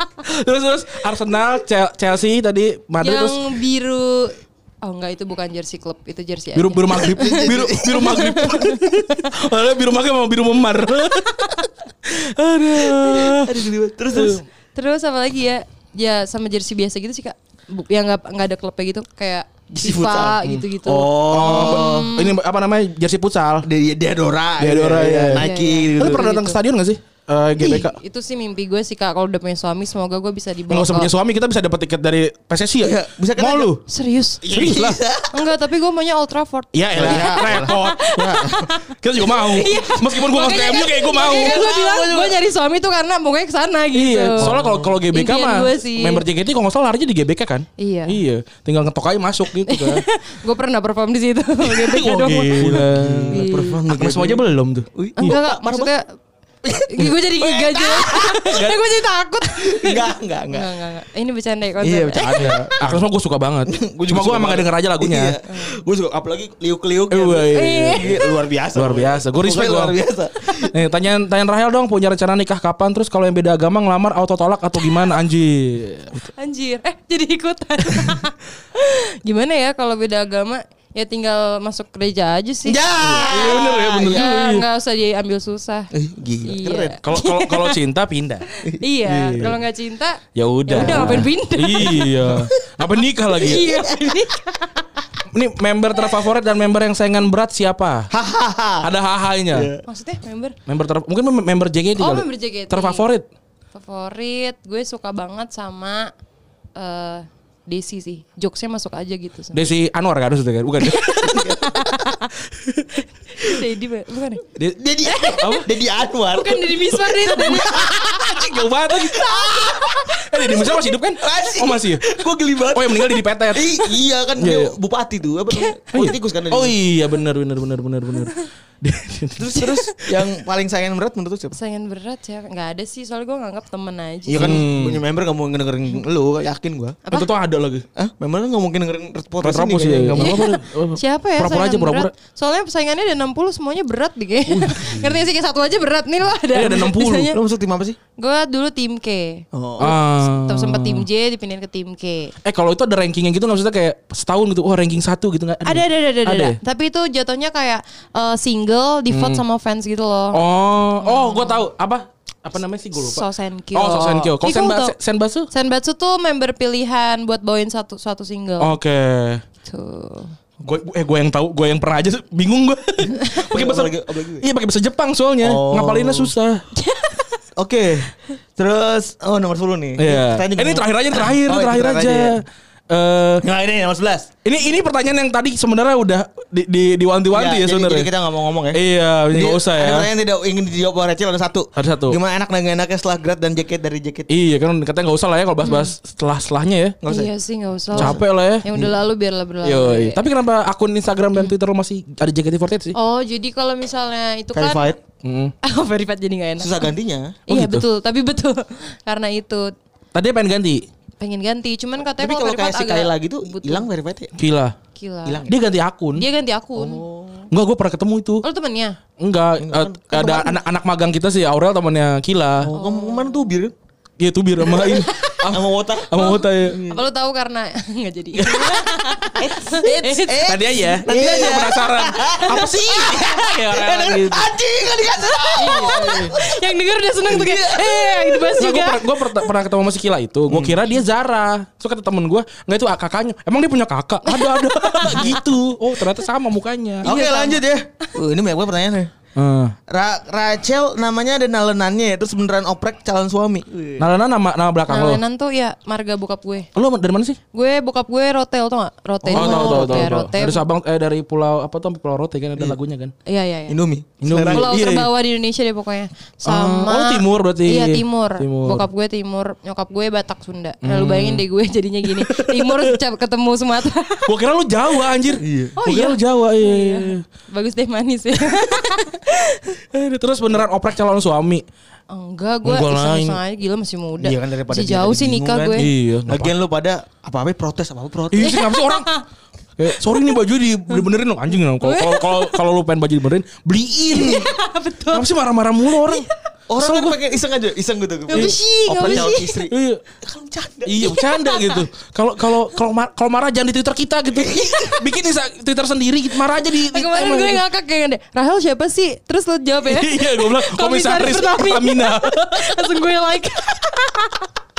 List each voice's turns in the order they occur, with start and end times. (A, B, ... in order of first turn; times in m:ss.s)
0:00.2-0:03.4 A
0:03.0-0:09.3 B
0:06.5-0:13.5 A
0:07.0-0:08.5 C
0:12.9-0:14.4 C
0:14.1-0:14.4 A
0:14.7-0:22.3 B
0:19.7-0:22.1 C
0:21.3-0:23.7 A
0:23.6-0:26.3 C
0:24.6-0:25.4 A
0:25.4-0:26.6 B
0:26.0-0:28.0 A
0:27.6-0:31.1 B
0:30.7-0:33.8 A
0:32.8-0:33.7 C
0:33.9-0:34.7 B
0:34.4-0:35.3 C
0:34.5-0:35.0 A
0:35.3-0:44.6 B
0:36.7-0:41.6 A
0:36.9-0:38.6 C
0:41.1-0:42.4 C
0:43.9-0:50.0 A
0:44.4-0:45.0 C
0:45.1-0:46.2 B
0:47.8-0:48.2 B
0:49.7-0:53.8 B
0:51.7-0:55.4 A
0:52.5-0:55.9 C
0:55.2-0:56.1 B
0:56.6-0:58.7 C
0:56.8-1:02.6 B
0:58.5-0:58.8 A
0:59.6-1:00.7 C
1:01.8-1:03.0 C
1:02.1-1:05.4 A
1:03.6-1:10.7 C
1:05.5-1:05.8 B
1:07.1-1:08.2 A
1:07.5-1:08.3 B
1:08.7-1:10.0 A
1:10.6-1:16.2 A
1:16.4-1:25.9 B
1:22.6-1:24.2 C
1:23.1-1:24.6 A
1:25.9-1:27.0 C
1:26.4-1:27.8 B
1:27.0-1:28.4 A
1:28.6-1:29.6 C
1:28.6-1:32.2 B
1:29.1-1:29.5 A
1:30.3-1:33.7 A
1:30.8-1:31.3 C
1:33.4-1:34.8 B
1:33.5-1:34.2 C
1:35.3-1:38.1 A
1:38.1-1:38.9 C
1:38.8-1:39.7 A
1:39.5-1:39.8 C
1:39.8-1:40.6 B
1:40.7-1:43.2 A
1:42.0-1:43.0 B
1:43.7-1:46.1 B
1:46.8-1:49.6 B
1:49.5-1:51.5 A
1:51.2-1:51.6 C
1:51.3-1:52.3 B
1:53.4-1:54.4 B
1:54.6-1:58.1 C
1:55.3-1:55.7 A
1:56.3-1:58.3 B
1:57.4-1:59.3 A
1:59.1-2:00.1 B
1:59.3-2:00.0 C
2:00.1-2:02.1 A
2:01.2-2:06.8 C
2:02.7-2:03.8 A
2:04.4-2:04.7 A
2:05.9-2:10.0 A
2:09.4-2:11.6 C
2:11.5-2:14.5 B
2:14.3-2:17.0 C
2:14.4-2:15.0 A
2:17.1-2:17.8 A
2:18.0-2:20.4 C
2:19.4-2:22.1 A
2:20.2-2:27.4 B
2:24.5-2:25.0 A
2:26.5-2:27.3 A
2:27.3-2:28.0 C
2:28.2-2:32.3 B
2:29.5-2:29.9 C
2:29.8-2:31.0 A
2:32.4-2:36.6 A
2:35.6-2:40.4 B
2:39.1-2:39.4 A
2:40.3-2:43.2 A
2:41.0-2:41.6 B
2:43.0-2:44.9 B
2:43.7-2:45.5 A
2:45.5-2:48.7 B
2:48.6-2:49.4 A
2:49.6-2:50.3 B
2:50.6-2:56.6 A
2:53.5-2:54.5 C
2:55.4-2:56.3 C
2:56.8-2:57.4 B
2:57.6-3:02.4 C
3:00.0-3:03.4 A
3:03.4-3:04.3 C
3:04.4-3:08.1 A
3:07.3-3:14.3 C
3:08.7-3:10.1 A
3:11.8-3:12.2 A
3:14.3-3:17.0 A
3:15.6-3:15.9 B
3:17.0-3:17.3 C
3:17.0-3:20.2 B
3:17.9-3:18.2 C
3:17.9-3:18.9 A
3:19.6-3:22.9 A
3:22.9-3:24.9 B
3:24.5-3:25.0 C
3:25.2-3:25.5 A
3:25.6-3:26.9 B
3:26.6-3:27.4 C
3:27.5-3:29.7 B
3:27.5-3:27.8 A
3:30.1-3:30.8 A
3:31.2-3:33.8 B
3:32.1-3:34.3 C
3:34.4-3:34.7 A
3:34.9-3:35.5 B
3:35.2-3:35.5 C
3:35.5-3:36.2 A
3:36.2-3:37.0 B
3:36.7-3:37.3 C
3:37.5-3:38.4 A
3:38.4-3:39.0 B
3:39.2-3:42.7 A
3:39.6-3:40.6 C
3:42.6-3:43.7 C
3:42.7-3:43.5 B
3:44.2-3:46.8 A
3:44.6-3:47.0 C
3:44.9-3:45.3 B
3:46.2-3:51.7 B
3:48.4-3:48.8 A
3:49.4-3:56.5 C
3:50.4-3:54.5 A
3:52.3-3:53.5 B
3:55.5-3:59.5 B
3:55.9-3:56.3 A
3:57.3-3:58.4 C
3:58.6-4:07.1 A
4:00.5-4:00.9 C
4:04.2-4:05.4 B
4:07.0-4:09.1 C
4:07.0-4:07.6 B
4:09.4-4:09.8 A
4:09.9-4:14.1 C
4:14.0-4:15.2 A
4:14.9-4:16.7 B
4:16.7-4:17.4 A
4:17.5-4:20.6 B
4:19.2-4:20.2 C
4:19.3-4:23.1 A
4:23.2-4:23.8 B
4:23.7-4:24.8 C
4:24.2-4:25.1 A
4:24.5-4:34.3 B
4:26.4-4:28.8 A
4:30.8-4:31.4 A
4:32.0-4:33.0 A
4:34.2-4:37.2 A
4:35.4-4:35.8 C
4:35.8-4:39.8 B
4:39.9-4:41.6 A
4:42.1-4:45.9 B
4:42.6-4:43.4 A
4:44.2-4:48.6 C
4:45.8-4:46.5 A
4:48.3-4:49.1 A
4:48.4-4:49.2 B
4:49.8-4:54.5 A
4:51.8-4:52.6 B
4:54.1-4:55.2 B
4:55.1-4:56.3 A
4:55.9-4:56.3 B
4:56.7-5:01.1 C
4:56.8-4:57.2 A
4:58.3-4:59.6 B
4:58.3-5:00.0 A
5:00.8-5:07.6 A
5:01.0-5:01.8 B
5:04.6-5:04.8 B
5:06.8-5:14.5 B
5:09.8-5:12.8 A